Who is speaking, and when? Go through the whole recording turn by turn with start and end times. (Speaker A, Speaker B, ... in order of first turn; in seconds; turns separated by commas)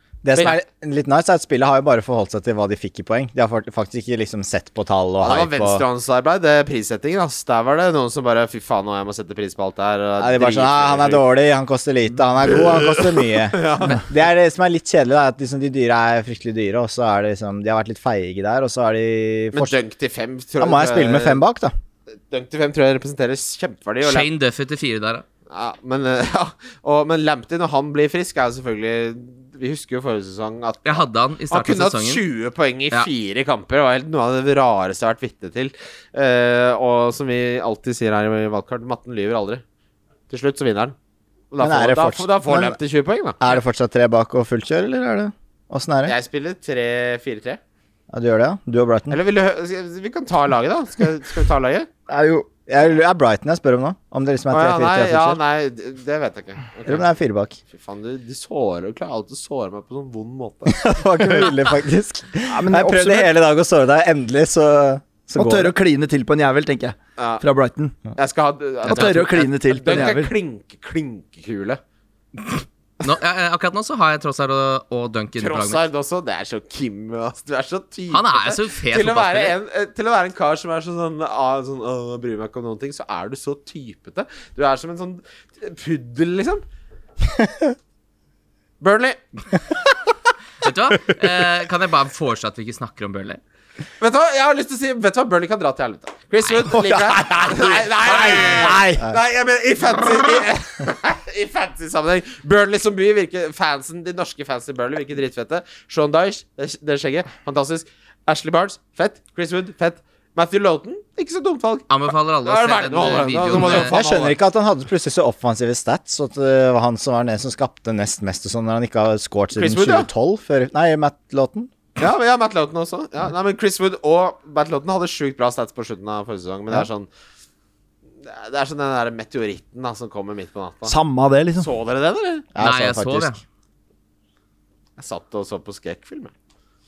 Speaker A: 0.2-5.8, Speaker B: 5.2-11.2, Speaker A: 10.2-19.7, Speaker B: 12.4-14.0, Speaker B: 19.5-21.4, Speaker A: 20.6-21.7, Speaker B: 22.3-24.3, Speaker C: 24.0-25.2, Speaker B: 25.5-39.6, Speaker C: 30.8-32.2, Speaker B: 40.3-40.9, Speaker B: 41.5-43.5, Speaker A: 41.6-42.8, Speaker A: 43.4-46.1, Speaker B: 46.0-47.6, Speaker A: 48.1-49.2, Speaker B: 49.1-51.9, Speaker D: 52.1-52.5, Speaker A: 52.7-55.4, Speaker B: 54.5-57.0, Speaker A: 56.9-57.6, Speaker B: 57.7-61.5, Speaker A: 60.7-65.8, Speaker D: 62.5-63.3, Speaker D: 65.4-68.0, Speaker B: 67.2-67.4, Speaker B: 68.2-71.8, Speaker D: 68.8-70.3, Speaker C: 68.9-69.3, Speaker C: 73.0-75.8, Speaker B: 75.4-86.6, Speaker C: 78.1-79.5, Speaker B: 88.8-89.2, Speaker C: 90.6-93.4, Speaker B: 94.0-114.4, Speaker D: 96.7-97.1, Speaker C: 98.1-98.7, Speaker A: 98.3-99.2, Speaker C: 111.9-113.9, Speaker A: 113.5-121.7, Speaker B: 119.5-120.1, Speaker B: 122.0-127.1, Speaker B: 128.2-131.0, Speaker D: 130.9-131.7, Speaker B: 131.6-132.4, Speaker A: 132.6-133.3, Speaker C: 132.6-133.4, Speaker B: 135.0-136.3